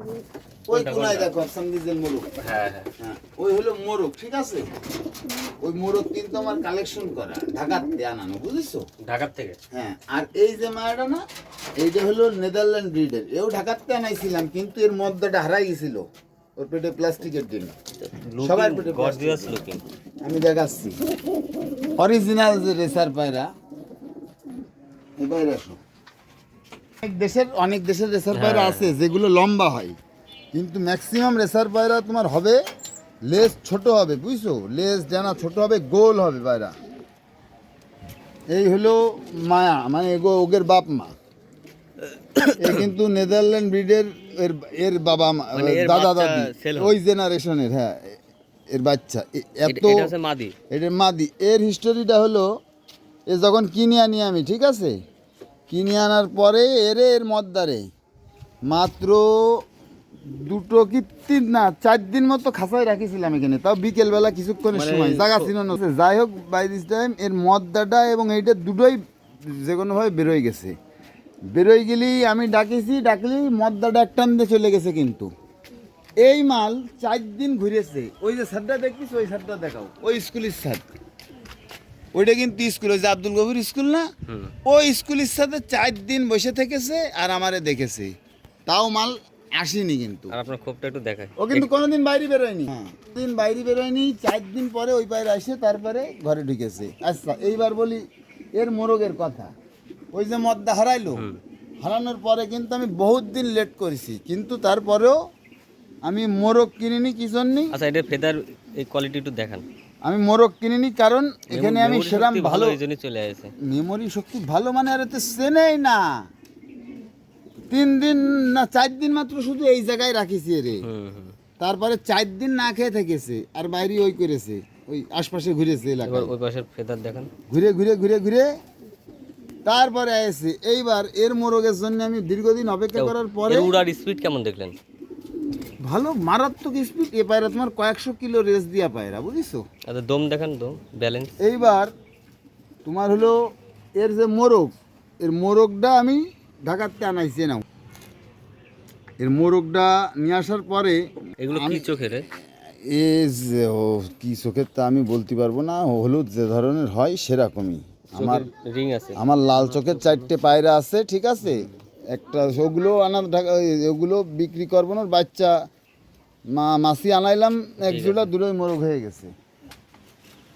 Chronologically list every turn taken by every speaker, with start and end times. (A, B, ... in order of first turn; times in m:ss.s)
0:00.7-0:02.3 A
0:00.7-0:01.3 B
0:02.4-0:02.9 B
0:03.0-0:04.7 A
0:05.6-0:08.8 A
0:09.0-0:09.6 B
0:09.7-0:11.2 A
0:11.8-0:16.0 A
0:16.6-0:17.8 A
0:18.0-0:19.8 B
0:18.4-0:19.6 A
0:20.2-0:21.0 A
0:22.0-0:23.5 A
0:25.2-0:25.8 A
0:27.0-0:29.9 A
0:28.3-0:28.9 B
0:30.5-0:32.6 A
0:33.3-0:36.7 A
0:38.5-0:41.1 A
0:42.3-0:42.9 B
0:42.4-0:48.2 A
0:45.5-0:47.0 B
0:48.7-0:50.1 A
0:49.6-0:50.5 B
0:50.7-0:52.5 A
0:53.3-0:54.9 A
0:55.7-0:57.8 A
0:58.7-0:59.6 A
1:00.3-1:10.7 A
1:04.7-1:05.6 B
1:11.5-1:15.3 A
1:16.2-1:20.8 A
1:22.1-1:24.1 A
1:24.3-1:24.5 B
1:24.6-1:28.1 A
1:28.7-1:30.3 A
1:30.3-1:31.7 B
1:31.4-1:38.0 A
1:38.6-1:39.5 A
1:40.1-1:41.2 A
1:41.2-1:41.4 B
1:41.8-1:45.2 A
1:46.0-1:47.7 A
1:47.7-1:49.6 B
1:50.0-1:52.8 A
1:51.5-1:53.5 B
1:53.6-1:56.0 A
1:57.7-2:00.8 A
2:00.8-2:01.4 B
2:01.6-2:06.3 A
2:06.0-2:07.3 B
2:07.5-2:08.5 A
2:09.6-2:13.7 A
2:12.9-2:14.7 B
2:15.8-2:19.6 A
2:19.9-2:21.3 B
2:21.4-2:21.9 A
2:22.8-2:23.4 A
2:24.0-2:27.6 A
2:29.2-2:31.9 A
2:31.4-2:32.3 B
2:32.8-2:38.5 A
2:38.1-2:40.4 B
2:39.2-2:45.5 A
2:41.4-2:41.7 B
2:46.5-2:49.3 A
2:47.8-2:48.3 B